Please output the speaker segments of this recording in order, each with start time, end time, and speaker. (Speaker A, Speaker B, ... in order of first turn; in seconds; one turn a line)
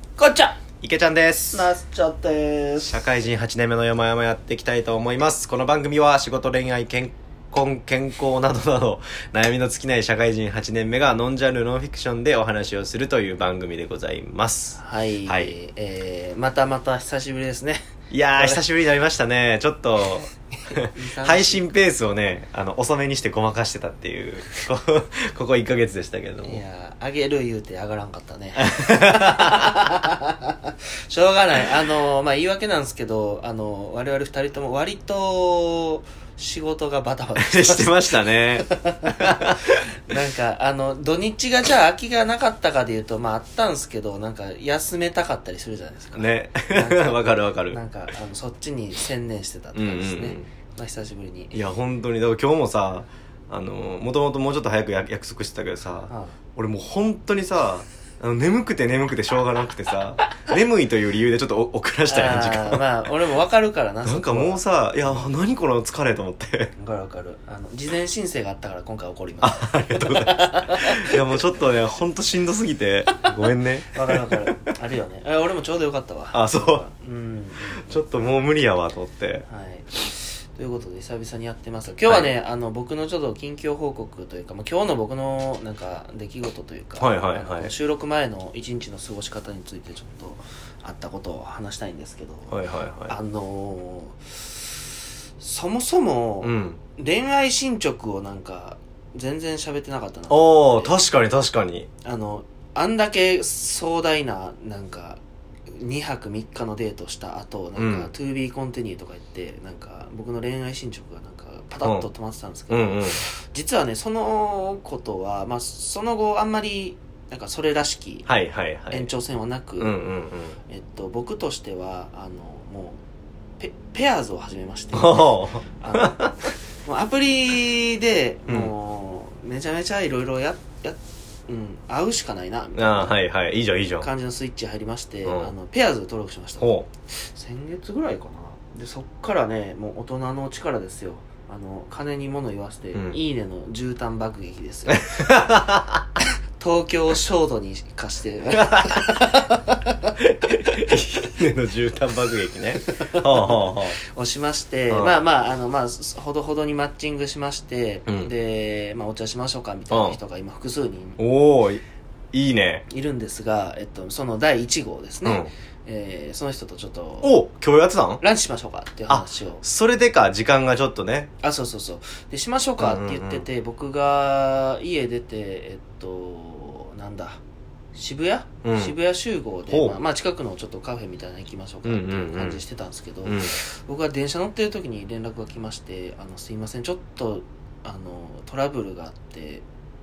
Speaker A: 0.2-0.6
Speaker B: 0.8-1.7
Speaker A: 1.5-3.0
Speaker B: 2.8-15.5
Speaker A: 14.8-18.6
Speaker B: 18.1-26.6
Speaker A: 20.7-21.7
Speaker A: 26.4-51.5
Speaker B: 28.6-29.9
Speaker B: 37.4-39.8
Speaker B: 46.1-47.8
Speaker B: 49.7-50.5
Speaker B: 51.5-62.9
Speaker A: 56.1-56.4
Speaker A: 62.1-64.6
Speaker B: 64.0-66.7
Speaker A: 66.8-71.2
Speaker B: 69.4-74.3
Speaker A: 73.9-78.0
Speaker B: 76.3-76.8
Speaker B: 77.7-79.5
Speaker A: 79.5-94.9
Speaker B: 82.0-82.3
Speaker B: 87.0-87.7
Speaker B: 92.5-93.1
Speaker A: 95.4-100.9
Speaker B: 96.4-96.8
Speaker B: 100.3-101.9
Speaker A: 102.0-105.2
Speaker A: 105.7-118.3
Speaker B: 107.8-108.1
Speaker B: 112.7-113.2
Speaker B: 118.2-119.1
Speaker A: 118.9-120.0
Speaker B: 119.8-120.6
Speaker A: 120.7-123.0
Speaker A: 123.6-133.2
Speaker B: 124.9-126.3
Speaker B: 132.8-134.1
Speaker A: 134.0-145.4
Speaker B: 135.2-135.5
Speaker B: 136.6-136.9
Speaker B: 142.9-143.2
Speaker B: 144.9-146.0
Speaker A: 146.6-150.0
Speaker B: 148.5-149.2
Speaker B: 150.2-154.0
Speaker A: 152.9-161.2
Speaker B: 154.9-155.2
Speaker B: 159.9-160.2
Speaker B: 161.2-161.8
Speaker B: 162.3-162.9
Speaker A: 162.9-167.3
Speaker B: 165.2-165.5
Speaker B: 167.2-168.2
Speaker A: 168.2-169.6
Speaker B: 169.1-171.3
Speaker A: 171.4-177.4
Speaker B: 172.8-173.4
Speaker A: 177.9-189.7
Speaker B: 178.6-178.9
Speaker B: 179.7-180.0
Speaker B: 181.8-182.6
Speaker B: 183.2-183.6